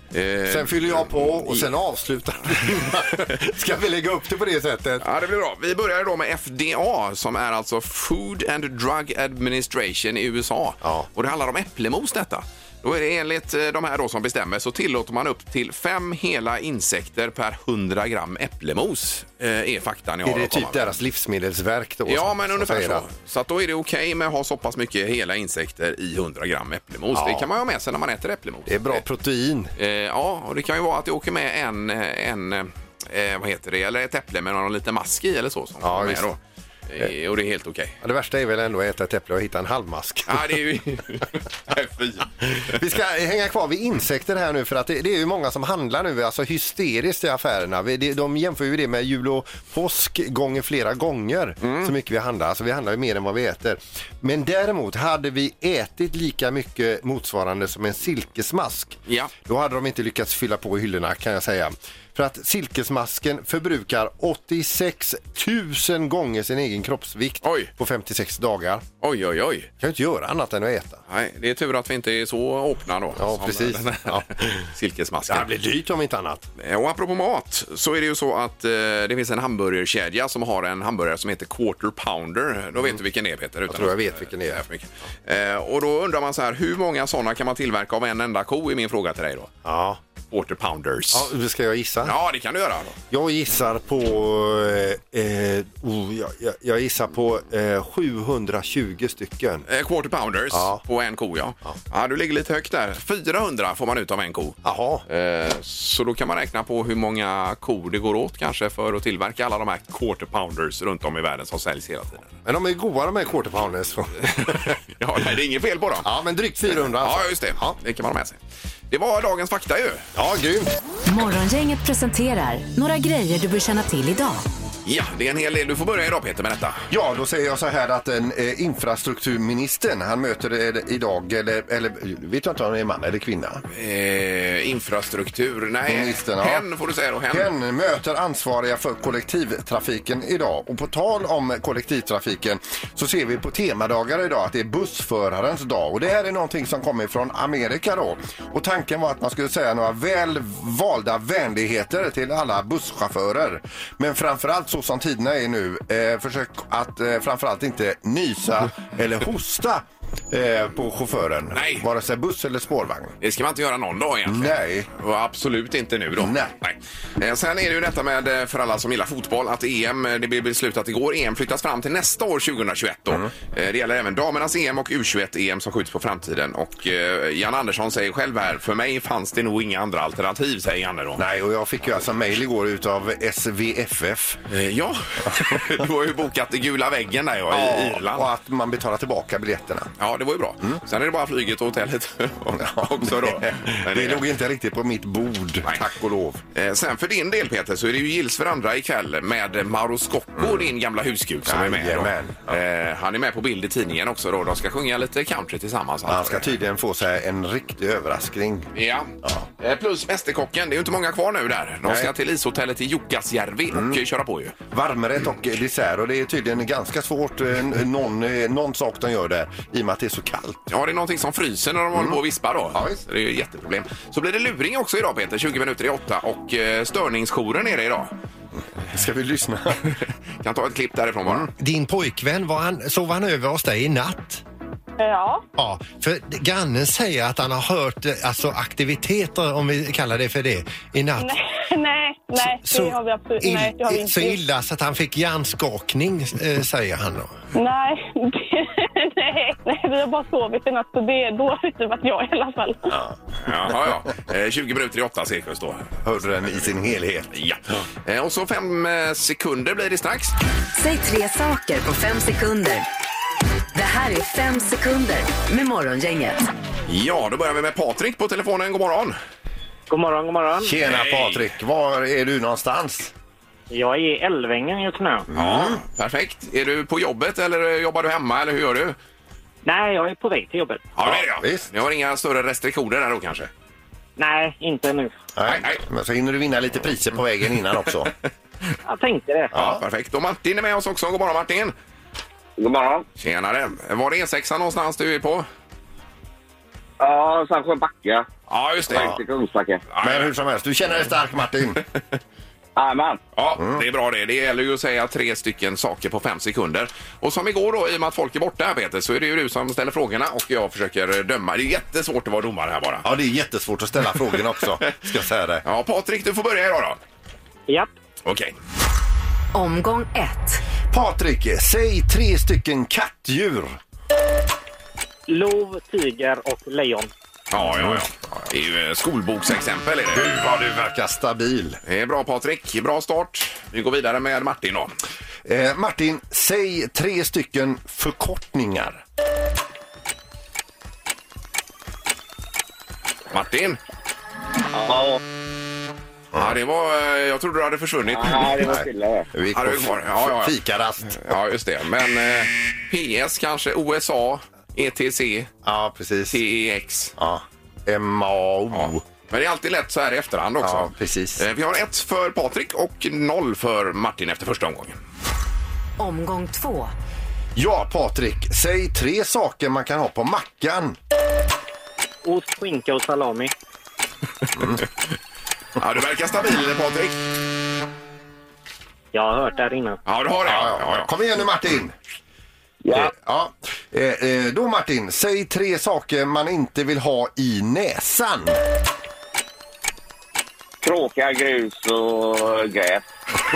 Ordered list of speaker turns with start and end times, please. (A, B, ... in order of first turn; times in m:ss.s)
0:00.1-0:01.7 A
0:00.5-0:05.0 B
0:02.6-0:03.2 A
0:05.0-0:21.0 A
0:20.2-0:23.0 B
0:22.1-0:29.0 A
0:27.1-0:27.5 B
0:28.7-0:29.7 B
0:29.8-0:38.0 A
0:35.8-0:36.3 B
0:38.0-0:40.4 B
0:40.3-0:42.3 A
0:42.4-0:58.9 B
0:51.6-0:51.9 A
0:59.1-0:59.3 A
0:59.5-1:08.8 B
1:07.4-1:07.7 A
1:09.0-1:09.7 A
1:09.8-1:11.0 B
1:11.1-1:15.5 A
1:13.2-1:14.6 B
1:15.3-1:16.4 B
1:16.6-1:29.5 A
1:23.7-1:24.6 B
1:29.7-1:30.0 B
1:30.3-1:31.3 A
1:31.1-1:32.1 B
1:32.0-1:33.0 A
1:33.1-1:39.6 B
1:39.7-1:52.4 A
1:40.5-1:40.8 B
1:44.6-1:45.0 B
1:52.5-1:54.7 B
1:54.4-1:56.1 A
1:56.1-1:57.8 B
1:57.0-1:58.4 A
1:58.9-2:00.0 A
2:00.2-2:00.7 B
2:01.1-2:04.5 C
2:04.8-2:06.8 A
2:06.9-2:13.6 B
2:13.7-2:17.5 A
2:15.9-2:16.6 B
2:17.3-2:43.2 B
2:41.5-2:41.8 A
2:43.2-3:01.2 A
2:44.3-2:44.9 B
2:46.2-2:46.5 B
3:01.2-3:04.4 B
3:04.5-3:08.3 A
3:05.3-3:05.6 B
3:07.5-3:09.9 B
3:10.0-3:14.2 A
3:12.6-3:16.4 B
3:15.6-3:26.5 A
3:20.4-3:20.7 B
3:21.5-3:22.6 B
3:26.1-3:28.7 B
3:28.7-3:34.6 A
3:33.7-3:34.0 B
3:34.7-3:40.6 B
3:40.7-3:48.1 A
3:48.8-3:50.0 B
3:50.4-3:51.5 A
3:51.6-3:54.4 D
3:55.0-3:55.4 E
3:55.6-4:01.4 D
4:01.2-4:04.4 E
4:02.4-4:07.3 D
4:07.6-4:12.9 E
4:12.9-4:13.2 B
4:13.4-4:16.0 A
4:16.0-4:17.3 B
4:17.3-4:20.3 A
4:20.7-4:22.9 C
4:23.7-4:26.4 C
4:26.9-4:29.2 A
4:29.9-4:30.8 F
4:30.6-4:33.1 B
4:30.8-4:31.5 A
4:33.7-4:35.3 F
4:35.3-4:35.8 B
4:35.3-4:39.0 A
4:39.6-4:40.8 F
4:41.0-4:43.5 A
4:41.0-4:41.7 B
4:44.2-4:45.2 F
4:45.4-4:48.1 B
4:45.5-4:45.8 A
4:48.8-4:49.5 F
4:49.5-4:49.8 B
4:49.5-4:51.7 A
4:52.6-4:53.1 G
4:53.2-4:55.4 A
4:57.0-4:58.3 G
4:58.5-4:59.1 A
4:58.9-4:59.9 G
4:58.9-4:59.2 B
4:59.9-5:00.3 A
5:00.0-5:01.8 B
5:02.8-5:03.2 G
5:03.4-5:13.0 A
5:03.6-5:03.8 B
5:13.0-5:15.6 B
5:15.6-5:17.0 A
5:18.2-5:18.5 A
5:19.5-5:20.6 C
5:20.9-5:23.8 B
5:25.3-5:27.1 F
5:27.5-5:30.5 A
5:27.6-5:28.1 B
5:30.1-5:31.8 B
5:31.9-5:34.9 A
5:35.5-5:39.0 B
5:43.3-5:43.8 A
5:44.8-5:45.2 G
5:46.4-5:48.7 A
5:48.1-5:49.3 G
5:48.6-5:51.4 B
5:49.5-5:50.6 A
5:51.1-5:55.5 A
5:55.6-5:56.4 B
5:56.3-5:57.2 A
5:57.2-5:59.0 B
5:58.7-6:05.0 A
6:00.6-6:01.4 B
6:06.0-6:06.9 C
6:07.6-6:11.0 B
6:12.2-6:13.5 F
6:14.6-6:14.8 B
6:15.8-6:17.2 A
6:19.1-6:20.0 F
6:20.0-6:21.1 A
6:20.5-6:21.9 B
6:22.8-6:23.1 G
6:22.9-6:28.6 B
6:30.8-6:33.1 G